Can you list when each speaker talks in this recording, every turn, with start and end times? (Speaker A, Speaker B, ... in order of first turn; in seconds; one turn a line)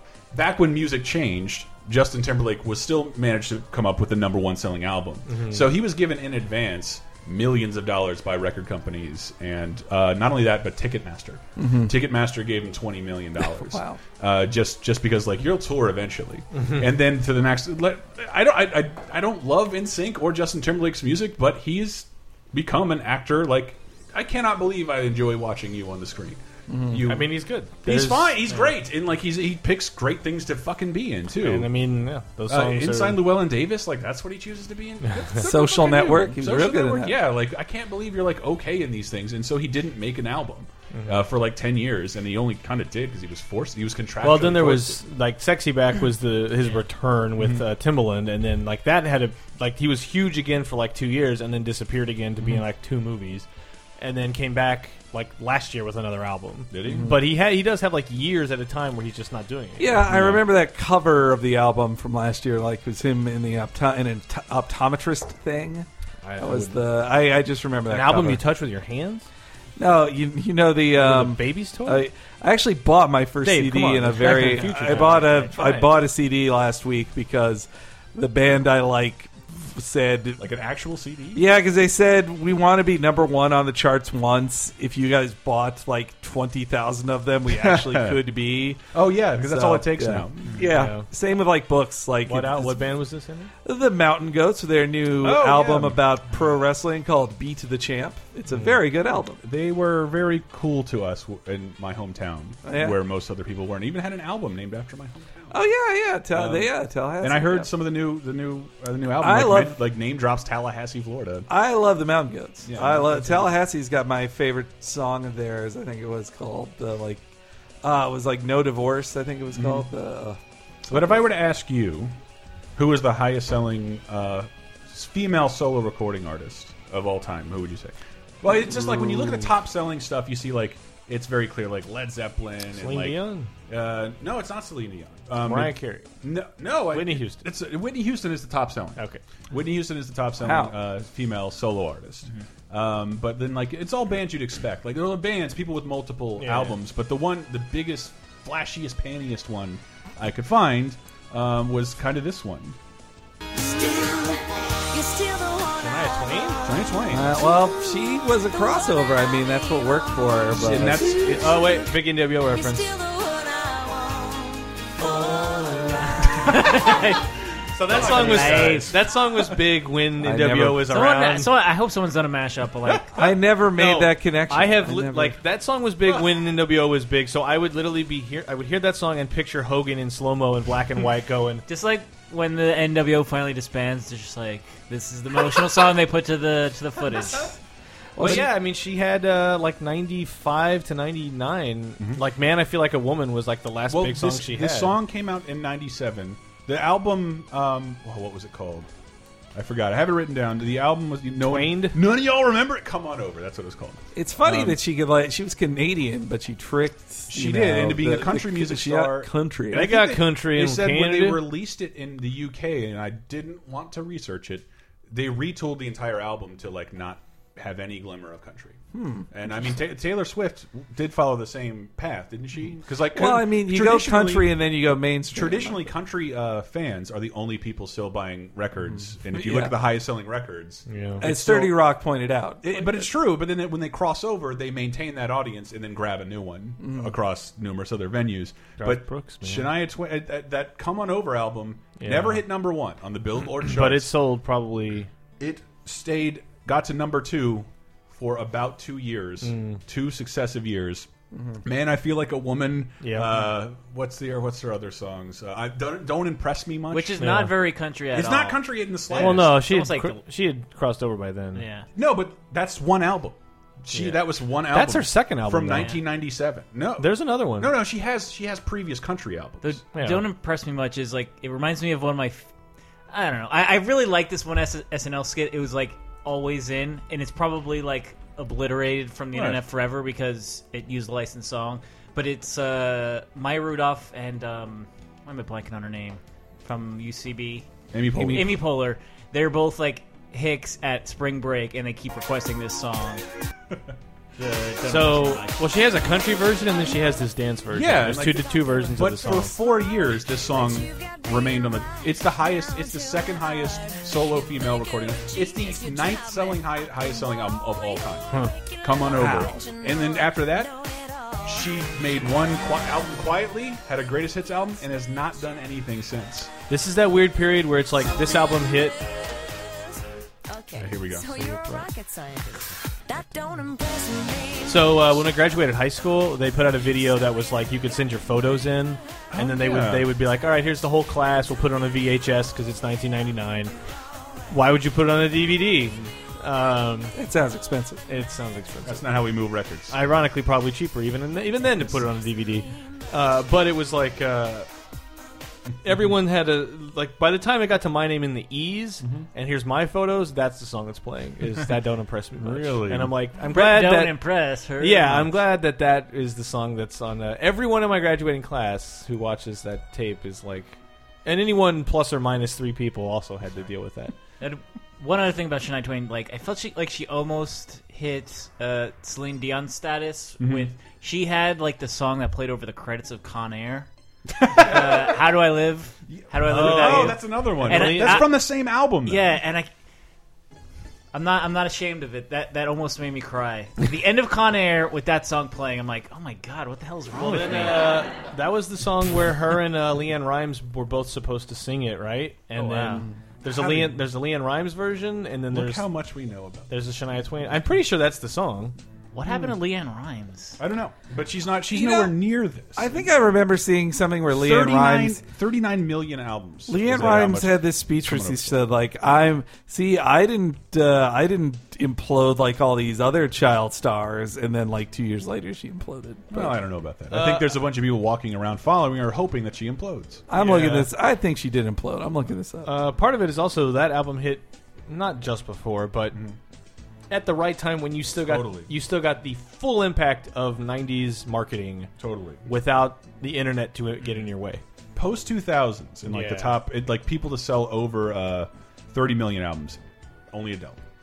Speaker A: 0.3-31.7
Speaker B: 5.3-5.7
Speaker C: 11.6-12.0
Speaker C: 13.4-14.0
Speaker B: 16.5-16.9
Speaker C: 26.7-27.2
Speaker B: 27.0-28.7
Speaker B: 31.4-33.2
Speaker A: 32.5-45.0
Speaker C: 35.4-37.3
Speaker B: 40.9-41.2
Speaker B: 44.2-53.5
Speaker A: 47.4-47.6
Speaker B: 54.0-59.9
Speaker A: 56.7-57.3
Speaker C: 56.9-57.1
Speaker C: 59.8-68.4
Speaker A: 60.0-60.4
Speaker B: 66.2-66.8
Speaker B: 67.9-69.3
Speaker C: 69.8-80.5
Speaker B: 70.9-72.0
Speaker B: 73.4-76.0
Speaker A: 80.4-81.4
Speaker C: 81.3-93.0
Speaker A: 87.5-88.2
Speaker A: 88.9-90.6
Speaker B: 90.6-91.1
Speaker B: 92.2-93.5
Speaker C: 93.6-99.4
Speaker A: 95.2-96.0
Speaker A: 99.4-105.5
Speaker C: 102.6-103.0
Speaker C: 105.5-107.7
Speaker A: 106.3-111.5
Speaker C: 109.2-109.8
Speaker C: 111.5-117.2
Speaker A: 112.7-113.5
Speaker C: 117.8-121.3
Speaker A: 119.5-119.9
Speaker A: 120.9-122.1
Speaker A: 122.8-152.8
Speaker B: 132.7-133.5
Speaker B: 135.4-136.1
Speaker B: 136.9-137.4
Speaker B: 138.9-139.2
Speaker C: 140.4-140.7
Speaker B: 146.4-146.8
Speaker D: 153.5-156.8
Speaker B: 155.8-156.6
Speaker A: 156.6-157.3
Speaker C: 157.1-161.4
Speaker D: 157.4-160.2
Speaker A: 160.5-161.6
Speaker B: 161.1-162.9
Speaker D: 161.6-167.2
Speaker E: 166.4-167.2
Speaker B: 167.7-171.5
Speaker A: 167.8-169.0
Speaker E: 168.0-169.0
Speaker C: 170.2-170.9
Speaker E: 170.9-173.1
Speaker C: 173.1-175.4
Speaker B: 173.7-181.6
Speaker E: 181.7-187.5
Speaker C: 188.2-188.4
Speaker A: 188.2-188.4
Speaker B: 188.2-194.9
Speaker A: 193.9-198.9
Speaker A: 199.5-204.8
Speaker B: 201.4-202.0
Speaker C: 204.1-210.0
Speaker A: 207.3-218.8
Speaker B: 209.7-211.4
Speaker C: 218.9-219.3
Speaker A: 219.3-224.7
Speaker C: 223.1-225.9
Speaker A: 225.3-231.9
Speaker C: 229.0-229.8
Speaker B: 230.9-231.2
Speaker C: 231.2-233.1
Speaker A: 232.6-244.1
Speaker C: 236.8-237.1
Speaker B: 238.8-239.7
Speaker B: 242.0-242.4
Speaker B: 243.6-245.1
Speaker A: 245.4-251.1
Speaker B: 249.4-249.8
Speaker C: 251.3-251.6
Speaker A: 251.6-257.4
Speaker B: 253.0-253.4
Speaker E: 256.9-260.2
Speaker B: 257.2-257.5
Speaker A: 258.1-259.6
Speaker B: 259.1-261.6
Speaker E: 261.5-261.9
Speaker A: 261.9-269.8
Speaker B: 263.9-266.0
Speaker E: 265.8-266.0
Speaker B: 267.0-267.7
Speaker E: 269.6-272.5
Speaker B: 269.9-270.2
Speaker E: 273.1-293.2
Speaker A: 279.3-279.6
Speaker A: 287.9-288.6
Speaker C: 288.1-288.4
Speaker E: 294.4-295.6
Speaker B: 294.8-299.5
Speaker A: 297.7-310.7
Speaker D: 298.6-312.0
Speaker C: 309.1-309.6
Speaker A: 311.4-316.5
Speaker B: 316.7-318.9
Speaker D: 318.0-319.9
Speaker D: 320.5-325.3
Speaker A: 320.7-321.6
Speaker B: 321.4-321.9
Speaker B: 324.6-333.7
Speaker D: 326.9-327.2
Speaker A: 329.3-330.1
Speaker B: 334.5-337.1
Speaker C: 337.1-338.0
Speaker B: 338.1-339.1
Speaker A: 338.8-340.0
Speaker B: 339.9-344.7
Speaker B: 345.8-354.2
Speaker A: 349.0-349.3
Speaker A: 352.4-353.1
Speaker E: 353.5-355.3
Speaker B: 354.8-364.1
Speaker E: 364.4-373.9
Speaker A: 370.4-370.7
Speaker A: 374.3-375.2
Speaker E: 374.4-378.5
Speaker A: 376.1-379.3
Speaker B: 376.4-378.3
Speaker E: 379.0-379.7
Speaker E: 381.1-387.9
Speaker B: 387.1-395.8
Speaker E: 392.6-393.0
Speaker A: 392.9-393.9
Speaker A: 395.5-396.7
Speaker B: 396.7-398.7
Speaker E: 399.1-400.6
Speaker A: 400.6-403.1
Speaker C: 401.7-402.2
Speaker C: 402.7-405.2
Speaker A: 404.3-408.6
Speaker C: 406.7-416.6
Speaker A: 416.3-420.2
Speaker B: 417.1-417.6
Speaker C: 420.3-422.7
Speaker B: 420.3-420.9
Speaker B: 422.6-426.1
Speaker B: 427.1-431.9
Speaker A: 428.2-428.7
Speaker A: 432.0-432.5
Speaker B: 432.4-434.6
Speaker A: 434.9-440.8
Speaker B: 436.1-436.6